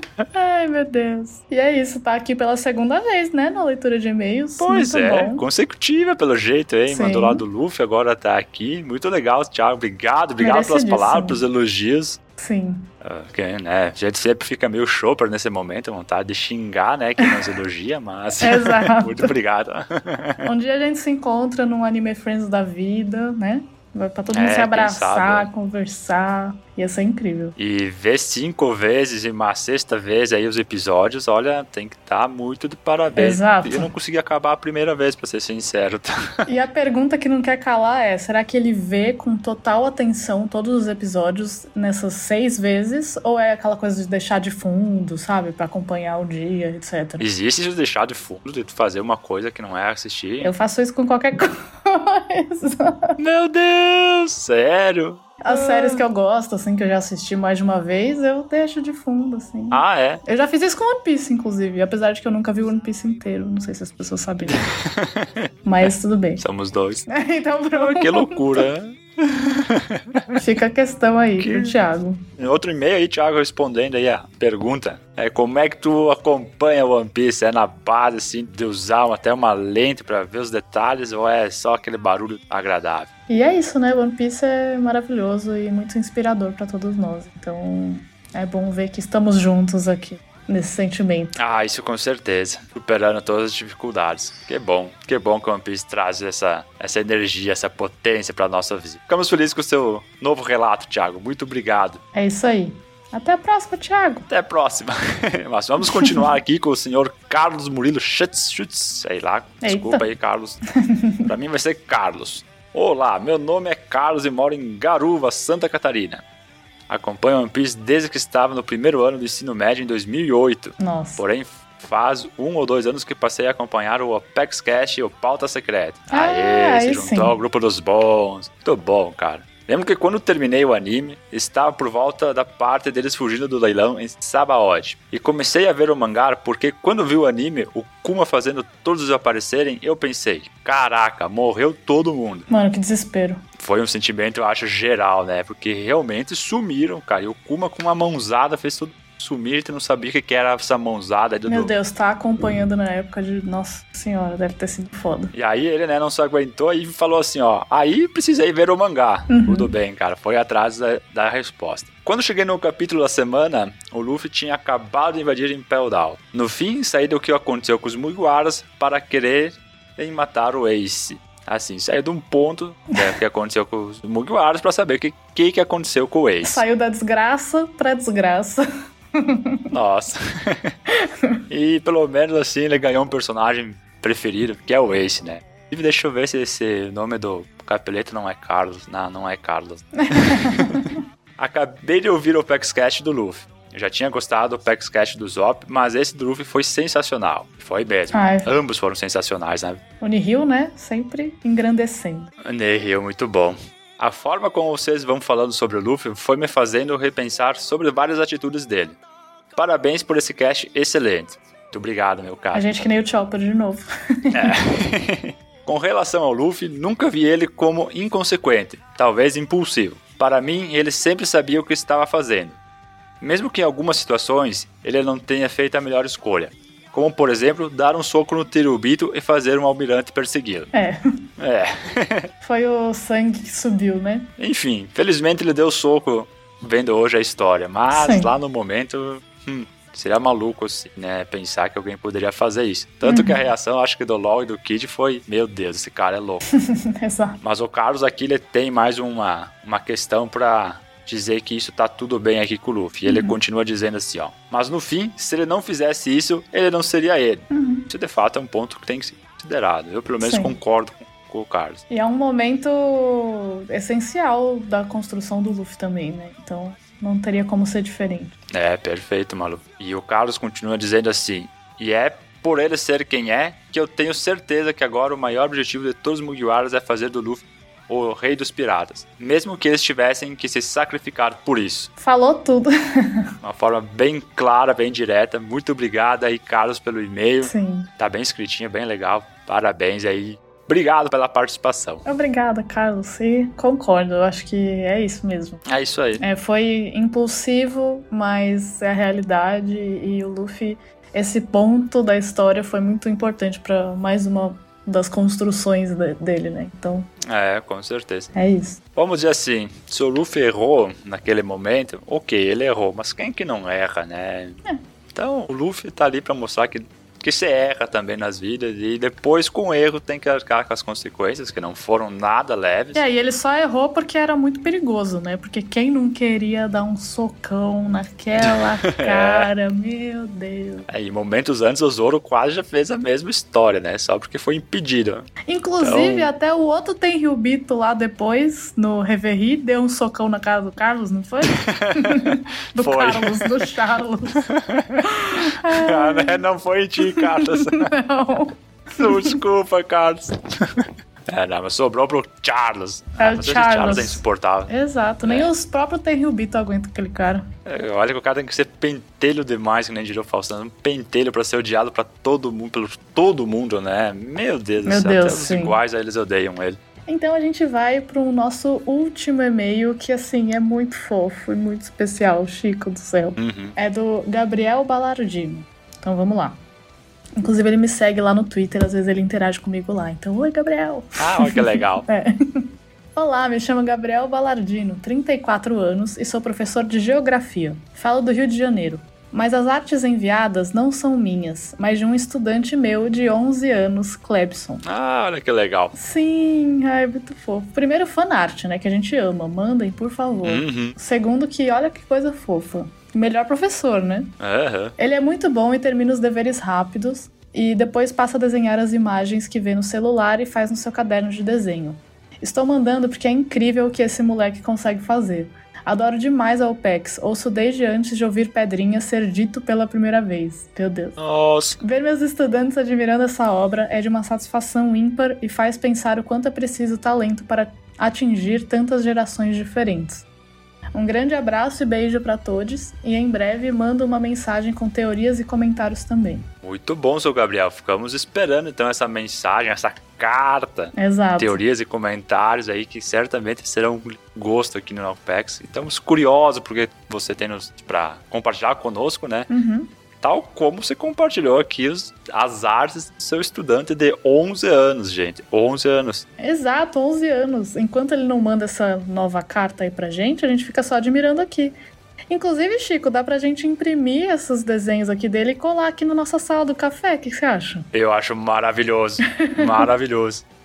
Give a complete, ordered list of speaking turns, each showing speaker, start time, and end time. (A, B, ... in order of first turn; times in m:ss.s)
0:00.3-0:05.4 A
0:04.6-0:12.2 B
0:06.9-0:07.4 A
0:10.4-0:11.4 A
0:12.4-0:12.9 A
0:13.0-0:20.4 B
0:18.4-0:19.3 A
0:20.4-0:27.6 A
0:24.3-0:25.5 B
0:27.6-0:36.3 B
0:33.2-0:33.9 A
0:36.5-0:47.2 A
0:47.2-0:50.5 B
0:50.4-0:53.2 A
0:53.2-0:56.0 B
0:55.4-1:04.7 A
0:59.7-1:00.2 B
1:04.5-1:05.5 B
1:05.7-1:06.4 A
1:06.4-1:07.1 B
1:07.1-1:08.6 A
1:07.8-1:10.3 B
1:10.4-1:12.2 A
1:11.4-1:11.8 B
1:12.4-1:23.1 B
1:23.3-1:31.4 A
1:31.4-1:42.0 B
1:42.2-1:44.3 A
1:44.3-1:50.6 B
1:49.6-1:50.1 A
1:50.8-1:51.3 A
1:51.2-1:56.2 B
1:56.9-2:22.5 B
2:00.8-2:01.2 A
2:06.1-2:07.4 A
2:22.5-2:23.4 A
2:23.6-2:31.7 B
2:31.5-2:35.3 A
2:35.3-2:56.6 B
2:39.3-2:39.7 A
2:56.4-2:58.6 A
2:59.2-2:59.6 A
2:59.7-3:00.7 B
3:01.0-3:01.3 A
3:01.5-3:10.9 B
3:10.0-3:10.9 A
3:11.4-3:19.8 B
3:18.1-3:18.5 A
3:20.0-3:22.3 A
3:22.4-3:29.0 B
3:29.6-3:32.8 B
3:32.5-3:34.6 A
3:34.3-3:42.6 B
3:43.2-3:50.7 B
3:50.7-3:51.0 A
3:51.4-3:52.3 B
3:52.4-3:54.3 A
3:54.4-4:06.5 B
3:57.9-3:58.3 A
4:03.0-4:03.4 A
4:06.5-4:07.4 A
4:07.4-4:21.8 B
4:13.1-4:13.4 A
4:17.5-4:17.9 A
4:20.2-4:20.6 A
4:21.9-4:28.4 A
4:28.5-4:41.9 B
4:42.0-4:43.2 A
4:43.4-4:52.0 B
4:47.4-4:47.9 A
4:52.0-4:55.6 A
4:55.7-4:56.2 B
4:56.2-5:07.1 A
5:07.2-5:08.3 B
5:08.3-5:08.8 A
5:09.0-5:14.6 B
5:15.1-5:23.0 B
5:22.9-5:30.9 A
5:28.4-5:29.5 B
5:30.9-5:35.3 B
5:35.4-5:44.4 A
5:35.8-5:36.3 B
5:41.5-5:43.5 B
5:44.4-5:48.0 B
5:45.0-5:46.4 A
5:47.0-5:49.4 A
5:49.0-5:54.7 B
5:53.2-5:57.5 A
5:55.2-5:55.5 B
5:57.7-6:06.8 B
6:04.8-6:05.8 A
6:07.1-6:16.6 A
6:13.4-6:13.8 B
6:17.4-6:34.8 A
6:21.2-6:22.1 B
6:34.8-6:35.9 B
6:35.9-6:44.4 A
6:40.4-6:41.0 B
6:44.4-6:45.0 B
6:45.0-7:01.2 A
7:01.2-7:01.8 B
7:01.8-7:10.2 A
7:10.9-7:16.5 A
7:16.6-7:29.5 B
7:21.0-7:21.6 A
7:29.5-7:29.9 A
7:30.2-7:36.2 B
7:36.4-7:41.8 A
7:42.3-7:47.9 A
7:47.9-7:50.4 B
7:49.4-7:49.9 A